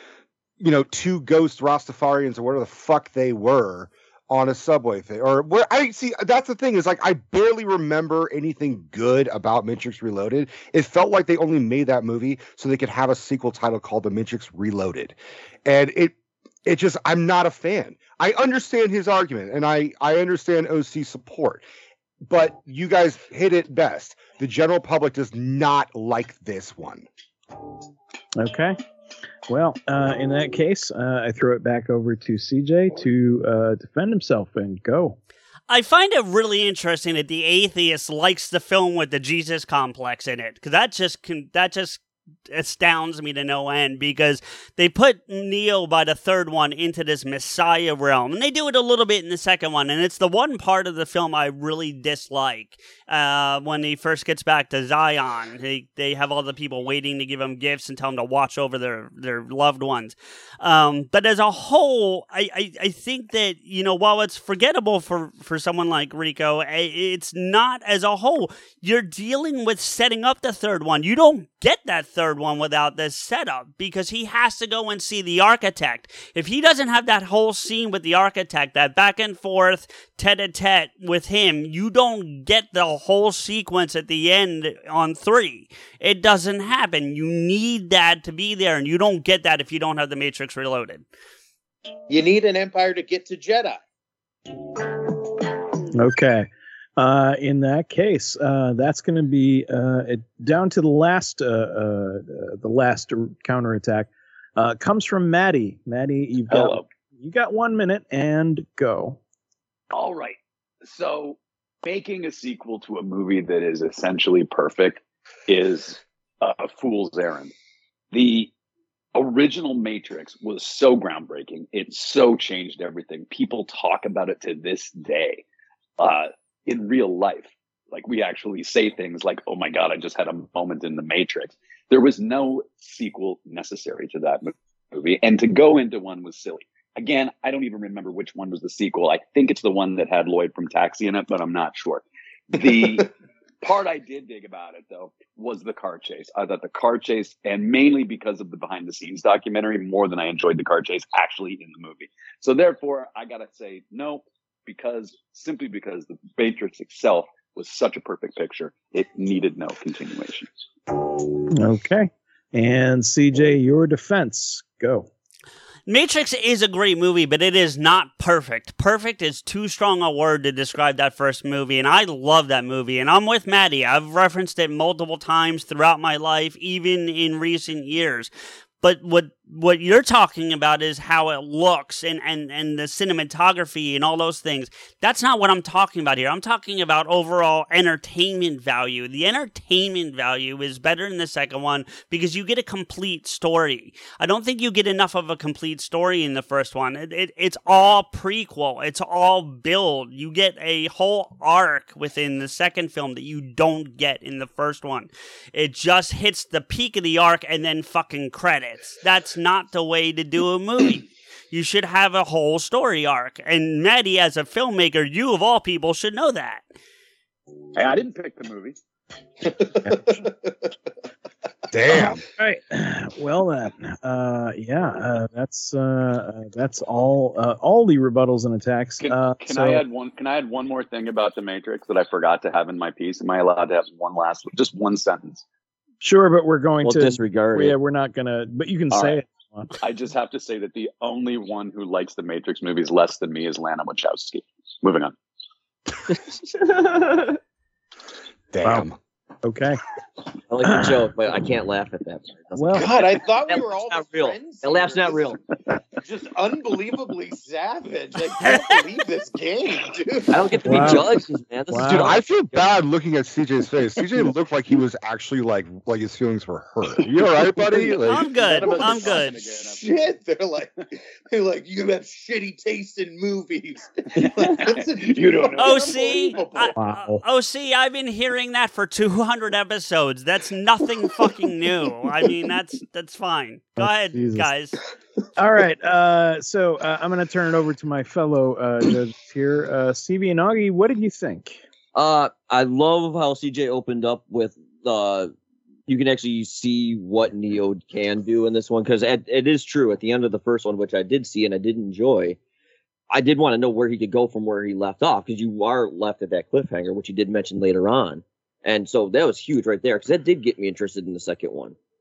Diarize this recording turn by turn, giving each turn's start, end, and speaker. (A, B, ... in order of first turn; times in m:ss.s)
0:00.6-0:21.6 A
0:22.2-0:27.1 A
0:28.4-0:28.8 B
0:29.5-0:35.2 B
0:35.7-1:31.0 C
1:32.1-1:33.8 D
1:35.9-1:49.2 B
1:46.5-1:46.9 E
1:49.9-1:57.5 E
1:58.1-1:58.5 E
1:59.2-2:05.4 E
2:06.0-2:40.5 E
2:41.3-2:45.1 B
2:45.9-3:36.6 C
3:37.8-3:38.8 E
3:39.6-3:40.5 D
3:41.7-3:42.2 A
3:42.4-3:49.8 B
3:49.0-3:55.4 E
3:56.0-3:59.8 B
3:56.8-3:57.8 F
3:58.9-3:59.2 E
3:59.8-4:05.2 E
4:06.1-4:07.4 F
4:08.5-4:09.0 A
4:08.6-4:08.9 B
4:09.4-4:09.8 B
4:10.5-4:15.4 F
4:10.6-4:11.1 B
4:12.6-4:12.9 B
4:12.7-4:15.4 D
4:16.0-4:20.4 D
4:20.3-4:22.8 F
4:20.6-4:21.1 B
4:21.7-4:22.2 B
4:21.9-4:28.3 A
4:27.0-4:29.9 E
4:28.1-4:29.4 C
4:28.4-4:30.7 D
4:31.3-4:36.8 D
4:34.2-4:36.2 E
4:35.6-4:44.8 C
4:36.8-4:37.2 B
4:43.8-4:44.5 B
4:45.4-4:51.6 B
4:52.0-4:55.3 F
4:55.9-5:02.4 F
5:03.1-5:11.8 F